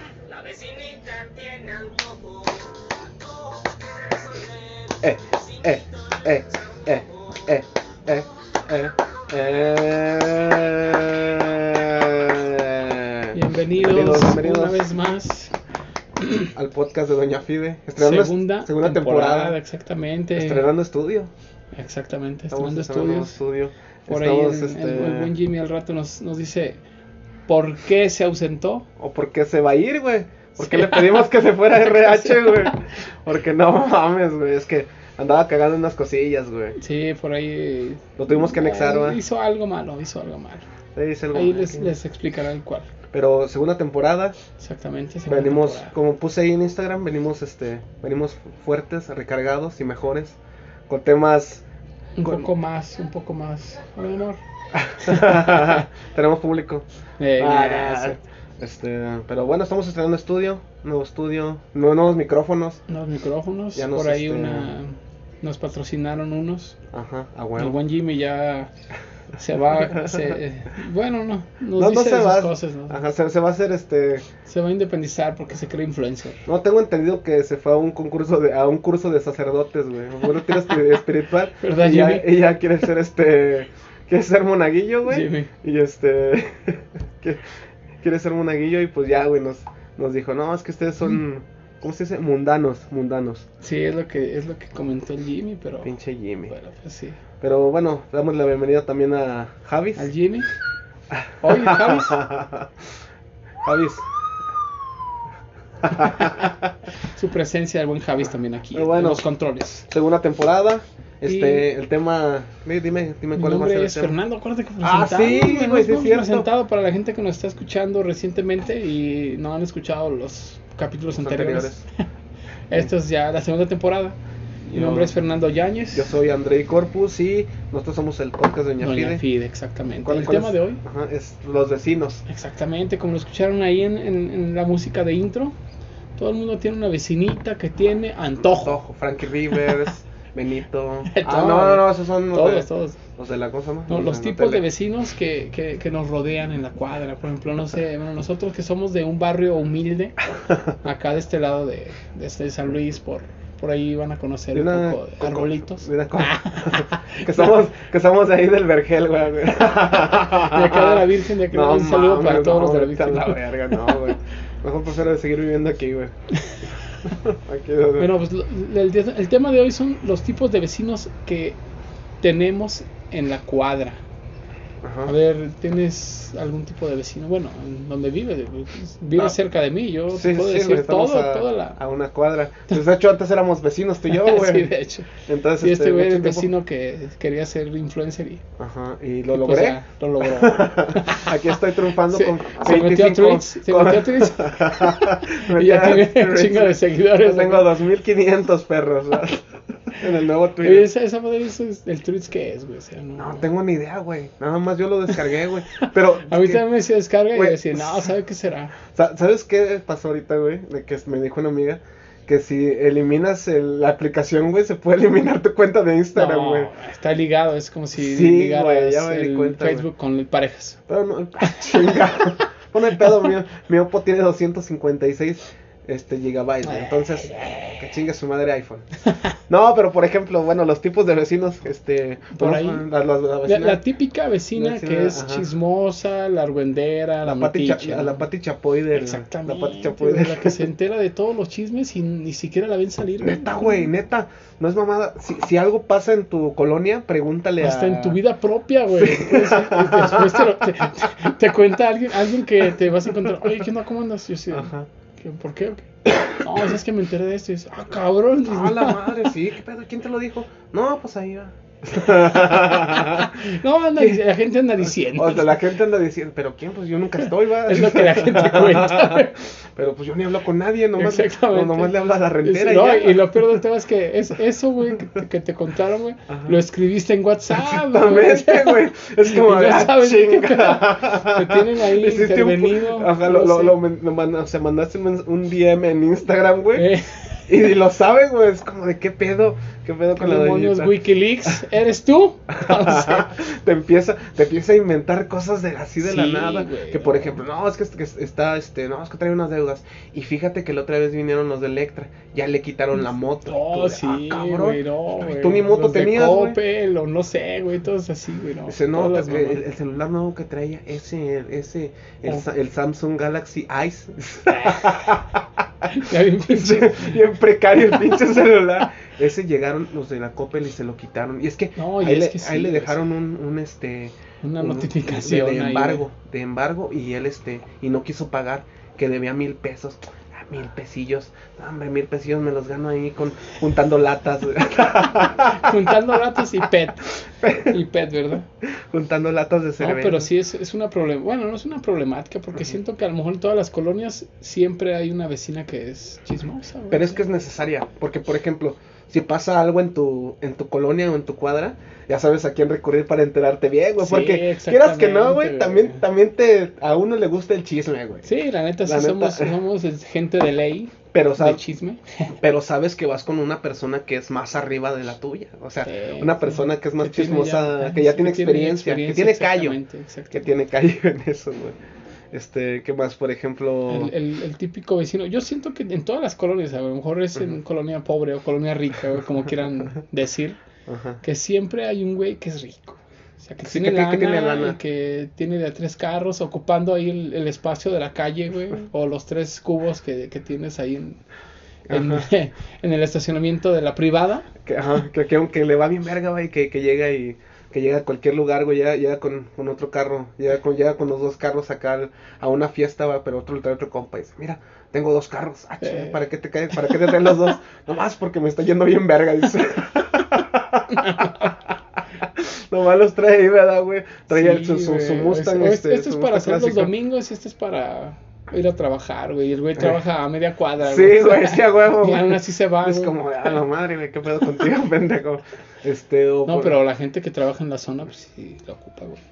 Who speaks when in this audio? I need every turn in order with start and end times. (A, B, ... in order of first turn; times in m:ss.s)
0:00.2-0:07.1 A
0:05.0-0:14.8 B
0:13.3-0:15.6 C
0:16.2-0:16.5 C
0:16.5-0:19.6 B
0:18.0-0:20.7 C
0:20.4-0:21.3 B
0:21.7-0:23.4 C
0:22.5-0:25.3 B
0:24.1-0:26.8 C
0:27.5-0:28.9 C
0:29.0-0:36.8 B
0:30.6-0:32.8 C
0:36.8-0:40.7 C
0:38.2-0:39.2 B
0:41.0-0:41.9 B
0:41.3-0:42.9 C
0:43.1-0:44.4 B
0:44.6-0:45.9 C
0:45.3-0:50.4 B
0:50.9-0:51.6 B
0:52.2-0:54.4 C
0:52.2-0:52.5 B
0:54.7-0:56.8 B
0:55.0-0:55.8 C
0:57.2-0:58.2 C
0:57.4-1:02.8 B
1:02.9-1:06.8 C
1:03.8-1:04.7 B
1:06.9-1:07.8 B
1:07.6-1:08.7 C
1:09.4-1:13.0 C
1:09.7-1:10.4 B
1:11.8-1:14.3 B
1:14.4-1:16.4 C
1:16.5-1:27.4 B
1:21.6-1:22.3 C
1:25.1-1:25.5 C
1:28.0-1:33.5 B
1:33.6-1:35.9 C
1:35.8-1:36.5 B
1:36.5-1:37.2 C
1:37.4-1:40.1 B
1:40.0-1:40.5 C
1:41.1-1:42.7 B
1:41.4-1:42.2 C
1:43.6-1:44.0 B
1:45.8-1:46.7 B
1:46.0-1:46.4 C
1:47.0-1:49.9 C
1:48.7-1:49.2 B
1:49.9-1:54.2 B
1:51.3-1:51.6 C
1:53.4-2:01.8 C
1:54.8-1:56.5 B
2:01.2-2:01.8 B
2:02.7-2:04.2 C
2:04.7-2:05.1 B
2:04.7-2:06.1 C
2:05.9-2:09.2 B
2:08.8-2:10.8 C
2:10.0-2:12.2 B
2:12.3-2:15.6 C
2:16.2-2:18.8 C
2:18.6-2:24.6 B
2:21.1-2:23.0 C
2:23.9-2:30.2 C
2:30.8-2:37.4 C
2:34.5-2:46.1 B
2:40.3-2:44.0 C
2:47.1-2:48.1 B
2:48.0-2:51.6 C
2:52.2-2:54.0 C
2:54.8-2:55.1 B
2:55.0-3:01.8 C
3:00.1-3:06.5 B
3:04.1-3:08.4 C
3:08.6-3:20.9 B
3:09.3-3:11.3 C
3:12.1-3:17.7 C
3:20.6-3:23.5 C
3:23.2-3:26.6 B
3:25.8-3:28.8 C
3:27.3-3:28.1 B
3:28.8-3:36.7 B
3:36.2-3:40.8 C
3:38.0-3:39.9 B
3:40.9-3:48.9 B
3:41.5-3:42.0 C
3:46.6-3:47.9 C
3:49.5-3:53.8 B
3:52.3-3:52.8 C
3:53.4-3:58.2 C
3:54.6-3:55.5 B
3:57.2-4:00.6 B
3:58.9-4:03.9 C
4:03.2-4:08.2 B
4:07.6-4:19.2 C
4:08.9-4:10.5 B
4:14.5-4:14.9 B
4:18.4-4:23.4 B
4:22.5-4:25.6 C
4:25.1-4:33.4 B
4:27.6-4:29.4 C
4:31.0-4:43.8 C
4:36.3-4:36.6 B
4:37.5-4:46.9 B
4:46.7-4:47.5 C
4:47.5-4:51.5 B
4:50.2-4:53.3 C
4:52.5-5:06.6 B
4:56.0-4:57.4 C
5:03.5-5:09.6 C
5:08.7-5:35.8 B
5:14.5-5:15.2 C
5:15.9-5:17.2 C
5:21.8-5:23.0 C
5:24.4-5:26.0 C
5:35.4-5:38.5 C
5:37.4-5:37.7 B
5:38.9-5:40.3 B
5:39.8-5:47.2 C
5:46.9-5:58.3 B
5:54.0-5:56.0 C
5:58.2-6:02.4 C
5:58.8-5:59.6 B
6:01.1-6:01.6 B
6:02.4-6:09.8 B
6:05.8-6:10.4 C
6:10.3-6:11.8 B
6:12.3-6:14.1 B
6:13.9-6:20.6 C
6:20.9-6:21.2 B
6:21.2-6:31.2 C
6:23.6-6:24.8 B
6:31.9-6:32.2 B
6:31.9-6:34.5 C
6:34.6-6:51.6 B
6:45.8-6:46.2 C
6:46.9-6:47.4 C
6:50.9-6:51.5 C
6:52.2-6:56.9 B
6:54.3-7:03.6 C
7:00.8-7:06.8 B
7:06.5-7:09.2 C